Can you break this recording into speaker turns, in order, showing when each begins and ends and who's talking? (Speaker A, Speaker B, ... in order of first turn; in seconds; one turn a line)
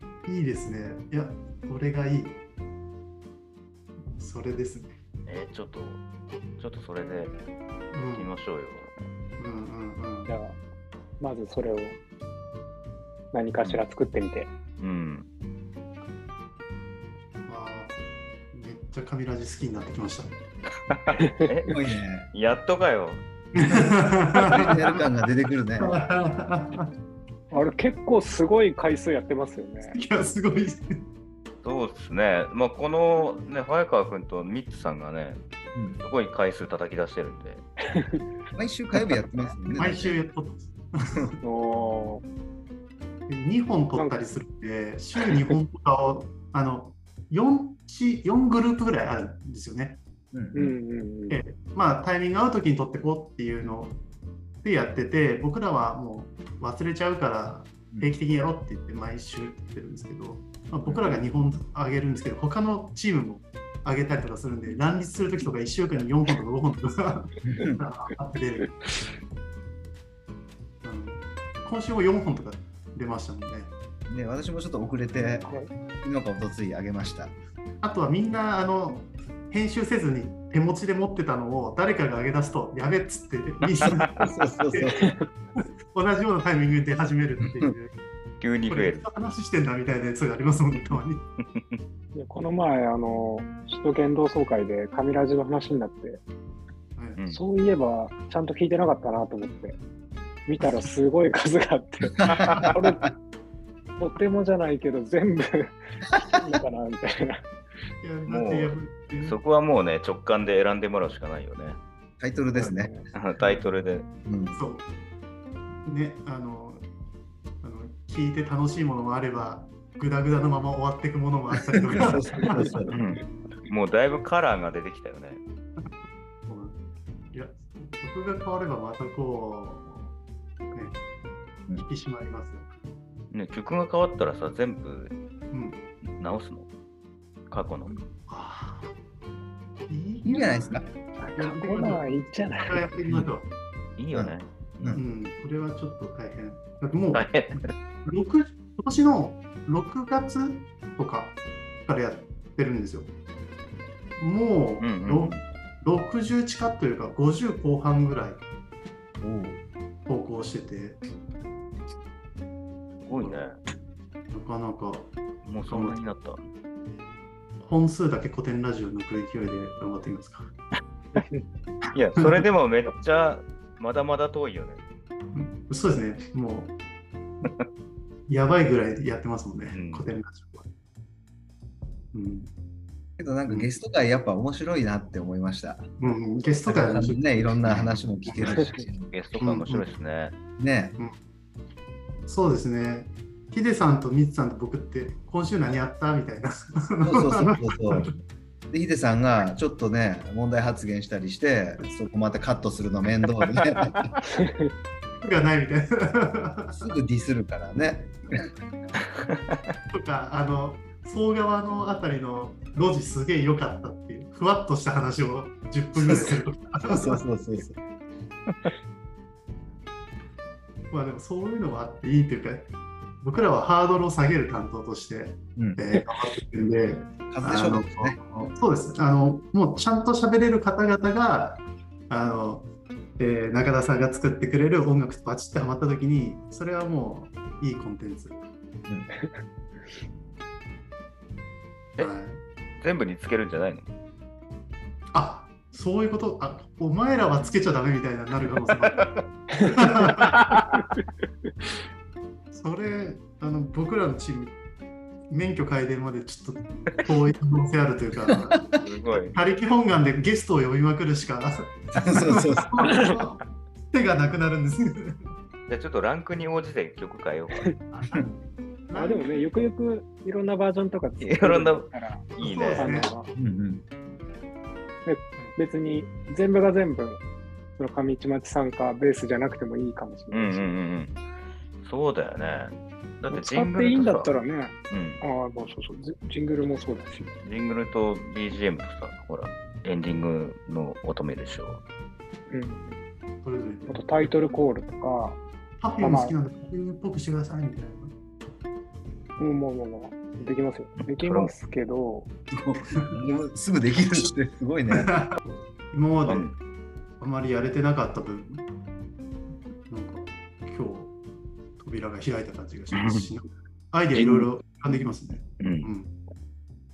Speaker A: 0.3-2.4
Speaker A: 4.1-4.9
Speaker B: 5.3-6.0
Speaker B: 6.6-7.4
Speaker A: 7.9-8.3
Speaker B: 8.1-8.9
Speaker A: 9.4-10.3
Speaker C: 10.3-10.6
Speaker C: 11.2-12.0
Speaker C: 13.3-14.5
Speaker B: 14.8-15.3
Speaker A: 17.5-18.0
Speaker A: 18.5-20.3
Speaker B: 20.9-21.8
Speaker C: 21.2-21.5
Speaker D: 21.7-22.3
Speaker B: 22.3-23.2
Speaker A: 23.5-25.0
Speaker D: 24.4-25.9
Speaker A: 25.8-26.9
Speaker C: 27.5-30.0
Speaker A: 29.9-31.0
Speaker B: 31.6-35.4
Speaker D: 35.8-36.0
Speaker B: 36.0-37.6
Speaker C: 38.0-38.2
Speaker D: 38.5-40.2
Speaker A: 39.7-41.4
Speaker C: 41.4-42.2
Speaker A: 43.3-50.0
Speaker C: 44.0-44.2
Speaker D: 50.3-50.7
Speaker C: 50.5-51.4
Speaker A: 51.3-54.0
Speaker A: 54.6-68.7
Speaker D: 60.9-61.2
Speaker D: 67.4-67.8
Speaker C: 68.7-69.0
Speaker A: 70.8-73.7
Speaker D: 74.1-77.4
Speaker C: 75.4-75.7
Speaker A: 77.8-85.0
Speaker D: 83.8-85.0
Speaker C: 85.0-85.2
Speaker A: 85.9-87.9
Speaker B: 88.4-89.0
Speaker A: 88.7-91.2
Speaker B: 91.4-91.8
Speaker C: 92.1-96.2
Speaker C: 97.3-99.8
Speaker C: 100.5-103.1
Speaker D: 102.2-102.8
Speaker C: 104.0-107.5
Speaker D: 106.2-106.6
Speaker A: 108.0-109.4
Speaker B: 108.3-111.8
Speaker D: 112.2-113.0
Speaker C: 112.5-113.1
Speaker B: 113.1-114.1
Speaker D: 114.2-114.6
Speaker A: 114.5-114.8
Speaker A: 115.8-116.9
Speaker A: 117.6-122.7
Speaker D: 121.8-122.9
Speaker C: 122.5-123.0
Speaker B: 122.9-125.4
Speaker A: 126.5-126.8
Speaker A: 127.3-130.1
Speaker A: 131.8-132.7
Speaker B: 133.3-135.1
Speaker A: 135.5-135.8
Speaker B: 136.2-136.7
Speaker B: 137.5-138.0
Speaker A: 138.1-138.9
Speaker A: 139.9-143.5
Speaker D: 140.2-140.9
Speaker C: 141.4-142.8
Speaker B: 144.0-145.0
Speaker D: 144.1-145.0
Speaker A: 144.9-153.1
Speaker B: 147.1-147.7
Speaker A: 154.2-158.4
Speaker B: 154.8-155.4
Speaker D: 159.2-159.6
Speaker A: 160.1-161.0
Speaker A: 163.1-163.4
Speaker B: 163.1-163.6
Speaker A: 164.3-165.1
Speaker B: 165.4-166.5
Speaker A: 165.7-166.1
Speaker A: 167.6-170.5
Speaker B: 171.9-174.8
Speaker A: 175.3-176.8
Speaker A: 178.3-180.7
Speaker B: 179.7-180.1
Speaker A: 182.1-182.5
Speaker D: 183.2-185.9
Speaker A: 186.0-188.6
Speaker D: 186.7-189.1
Speaker C: 188.6-188.8
Speaker B: 189.1-190.4
Speaker A: 189.4-189.9
Speaker D: 190.6-191.0
Speaker A: 192.3-198.1
Speaker D: 197.0-198.1
Speaker D: 198.7-204.1
Speaker C: 204.3-204.7
Speaker A: 205.2-206.9
Speaker D: 206.8-208.5
Speaker B: 209.2-209.6
Speaker A: 209.9-217.2
Speaker D: 216.1-216.3
Speaker D: 216.9-217.8
Speaker A: 220.9-222.7
Speaker A: 223.2-238.4
Speaker D: 225.6-225.8
Speaker D: 227.3-228.2
Speaker A: 242.0-242.4
Speaker B: 242.8-243.9
Speaker A: 245.1-249.1
Speaker B: 248.8-249.2
Speaker C: 249.6-250.2
Speaker A: 249.6-250.3
Speaker B: 250.2-250.8
Speaker C: 250.7-251.7
Speaker A: 252.5-254.6
Speaker A: 255.3-258.6
Speaker D: 258.3-258.7
Speaker B: 258.8-259.4
Speaker A: 259.2-265.2
Speaker D: 261.9-262.8
Speaker C: 262.8-263.1
Speaker B: 265.7-267.7
Speaker A: 267.9-269.5
Speaker C: 268.9-273.3
Speaker B: 271.2-273.1
Speaker A: 272.4-273.1
Speaker D: 273.4-273.8
Speaker C: 275.1-277.2
Speaker C: 277.8-280.7
Speaker B: 280.3-281.2
Speaker B: 281.8-284.4
Speaker C: 283.3-287.3
Speaker B: 284.9-285.2
Speaker B: 287.4-291.8
Speaker C: 292.5-292.9
Speaker A: 293.4-294.3
Speaker C: 293.9-295.4
Speaker A: 295.8-298.1
Speaker C: 296.0-296.4
Speaker C: 299.4-302.3
Speaker B: 301.0-301.5
Speaker D: 302.5-305.2
Speaker A: 304.9-306.5
Speaker B: 306.3-306.6
Speaker A: 307.2-308.6
Speaker A: 309.9-311.1
Speaker A: 311.8-316.1
Speaker B: 312.9-313.3
Speaker B: 314.1-314.5
Speaker B: 315.6-315.9